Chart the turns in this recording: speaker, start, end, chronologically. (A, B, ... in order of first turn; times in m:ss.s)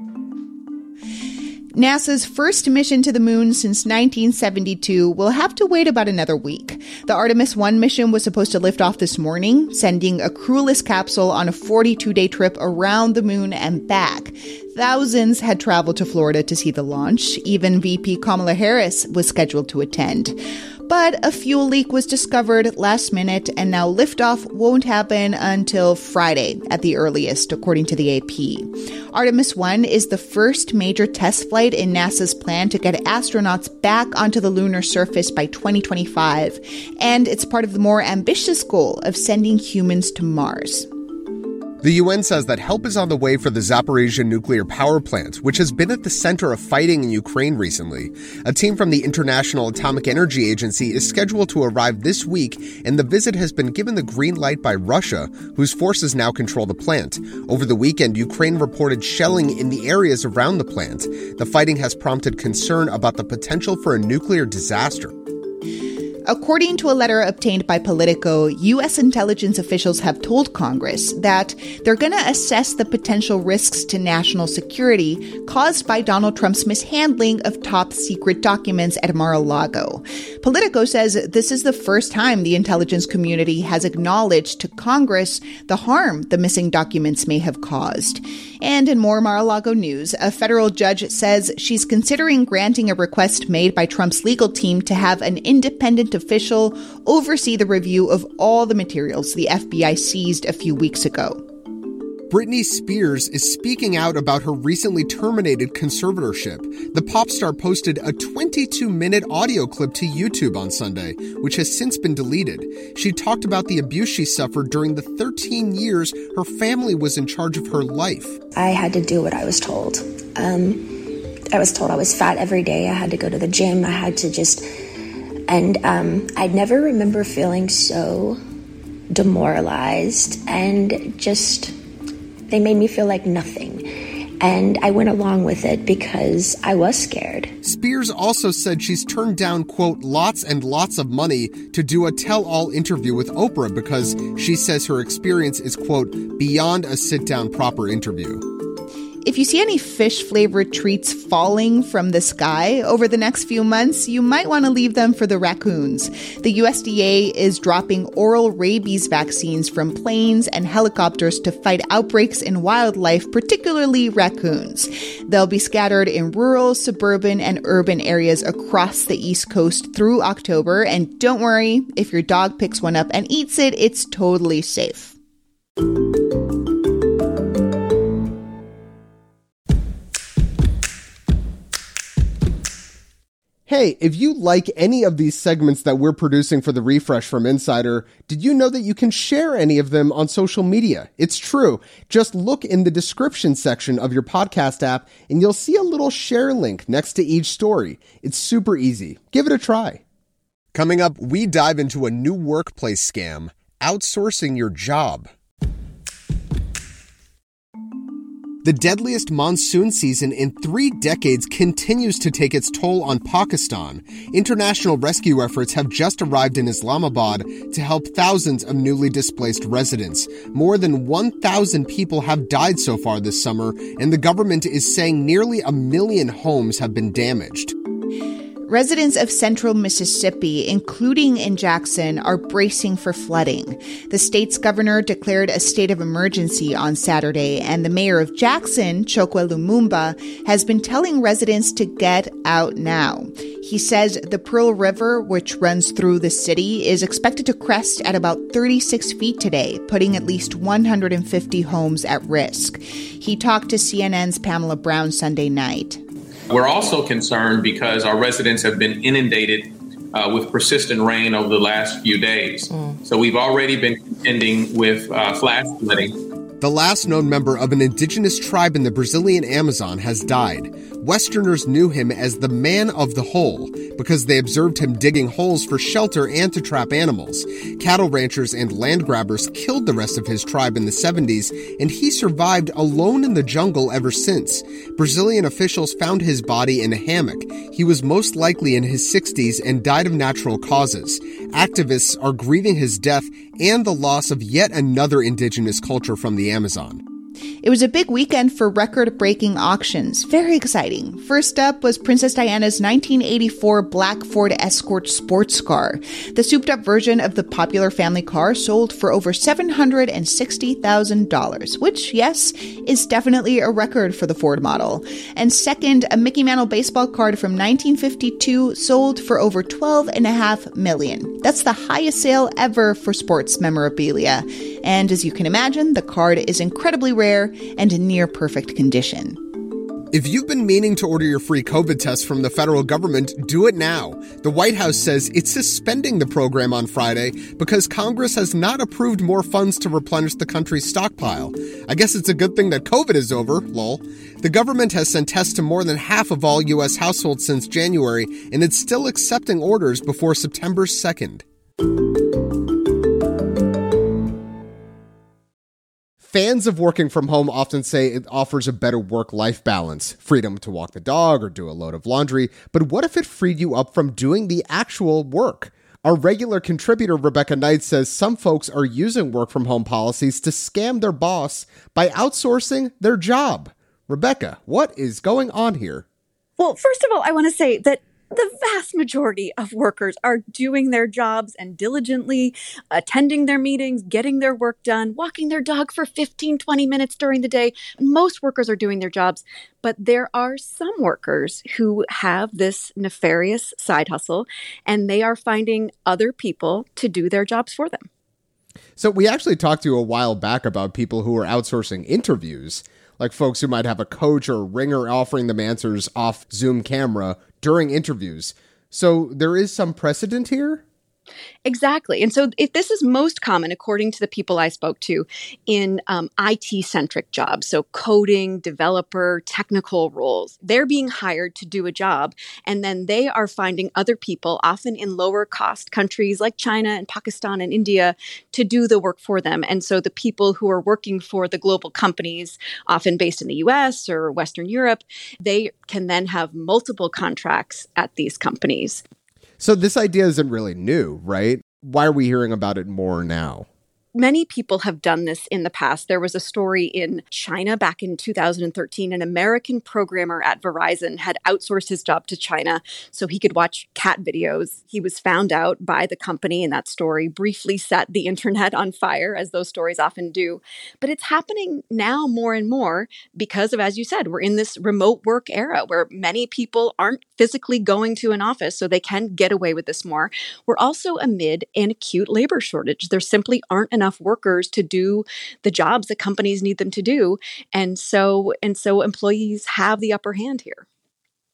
0:01.7-0:40.9 A
0:41.8-1:05.1 B
1:06.3-1:41.4 A
1:42.3-1:58.4 B
1:58.6-2:04.6 C
2:05.5-2:08.4 C
2:09.1-2:11.7 C
2:12.5-2:13.8 C
2:14.4-2:17.5 C
2:17.6-2:28.4 B
2:29.2-2:55.1 A
3:03.7-3:20.0 B
3:20.7-3:25.3 B
3:28.6-3:47.7 B
3:48.7-4:16.0 A
4:16.5-4:26.1 D
4:26.6-4:57.0 B
4:57.6-5:29.4 A
5:30.1-5:51.4 B
5:56.2-6:16.0 B
6:16.6-6:38.1 E
6:39.0-6:50.8 B
6:51.6-7:19.0 E
7:19.6-7:23.7 B
7:24.1-8:00.8 E